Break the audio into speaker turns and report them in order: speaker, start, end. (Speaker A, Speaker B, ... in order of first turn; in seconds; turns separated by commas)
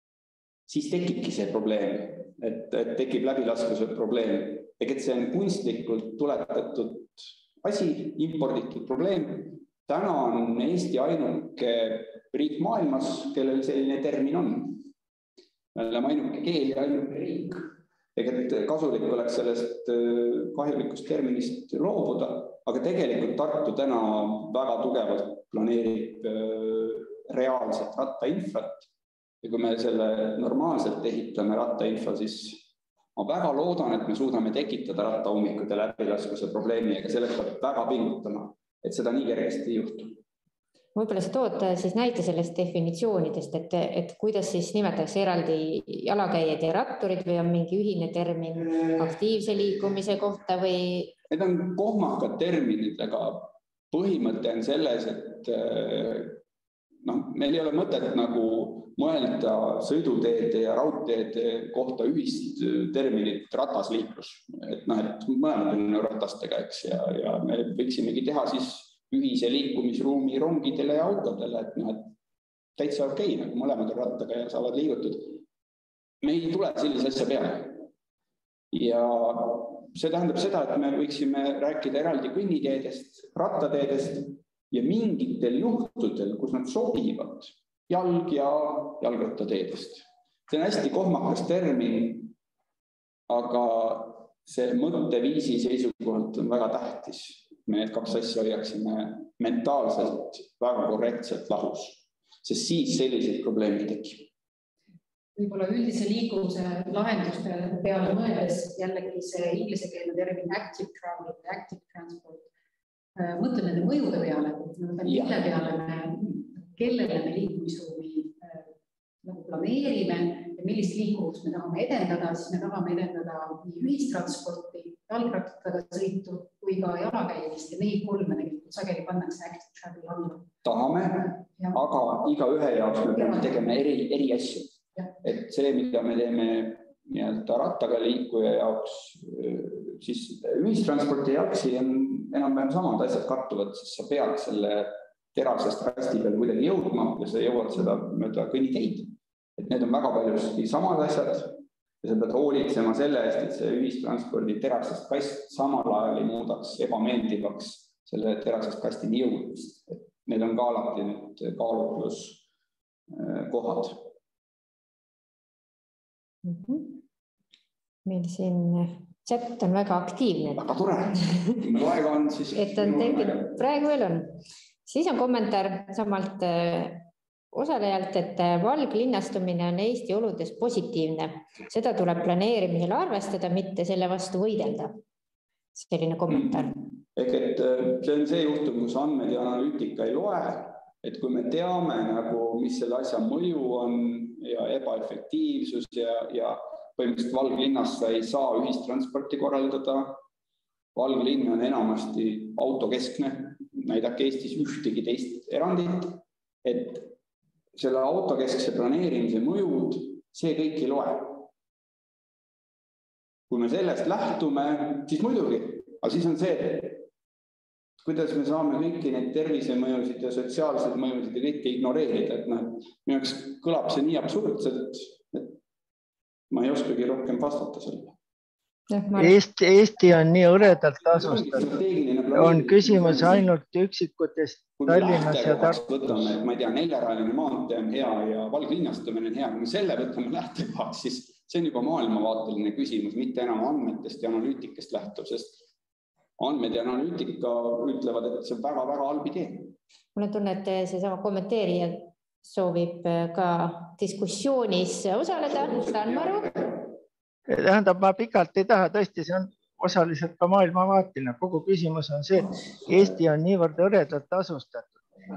Speaker A: 0.7-14.8, Speaker A: 15.7-28.9, Speaker A: 29.4-40.2, Speaker B: 40.9-51.1, Speaker A: 51.3-56.4, Speaker A: 57.0-72.1, Speaker A: 72.8-75.4, Speaker A: 76.2-77.9, Speaker A: 78.7-92.3, Speaker A: 93.3-104.3, Speaker C: 105.3-112.5, Speaker C: 113.2-118.6, Speaker A: 115.0-115.4, Speaker C: 119.2-130.5, Speaker A: 130.6-162.4, Speaker C: 133.1-133.4, Speaker A: 163.1-164.1, Speaker B: 166.4-167.0, Speaker B: 168.0-170.6, Speaker A: 170.6-173.6, Speaker B: 172.5-185.0, Speaker B: 185.7-186.7, Speaker A: 186.3-200.2, Speaker A: 200.9-207.1, Speaker A: 207.7-211.5, Speaker A: 213.5-217.1, Speaker A: 218.0-225.6, Speaker A: 226.5-228.2, Speaker B: 228.9-229.4, Speaker D: 229.2-231.7, Speaker A: 231.0-233.5, Speaker D: 232.3-236.3, Speaker A: 234.8-245.7, Speaker A: 246.4-249.8, Speaker B: 250.1-256.5, Speaker A: 255.6-256.6, Speaker D: 257.5-264.9